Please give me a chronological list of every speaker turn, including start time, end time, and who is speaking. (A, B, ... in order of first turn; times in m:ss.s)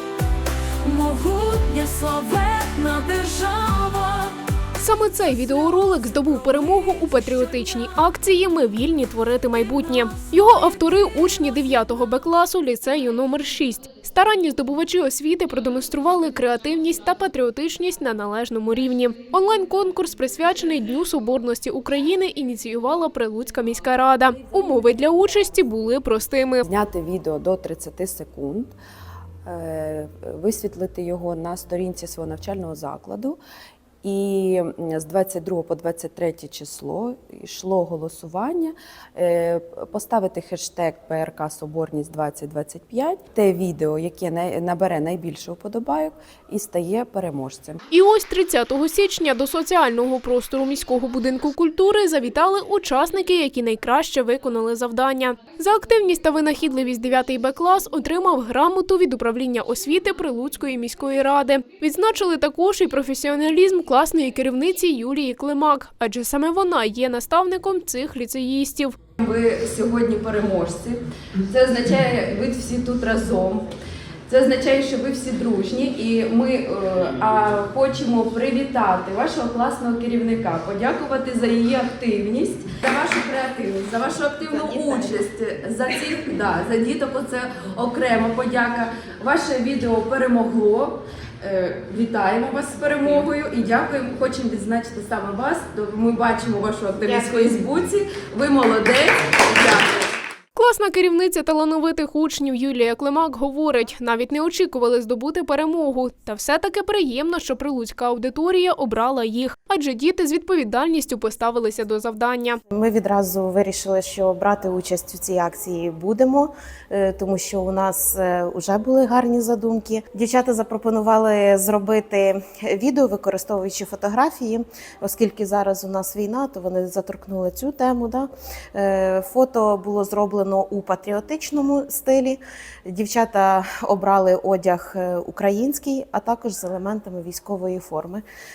0:00.8-0:04.4 A
0:04.8-0:26.7 B
0:26.7-0:28.8 C
0:29.5-0:33.4 C
0:34.0-0:47.8 C
0:47.9-1:09.0 B
1:09.2-1:13.7 D
1:14.3-1:39.8 D
1:24.5-1:25.2 E
1:40.6-1:52.6 B
1:52.7-2:18.2 E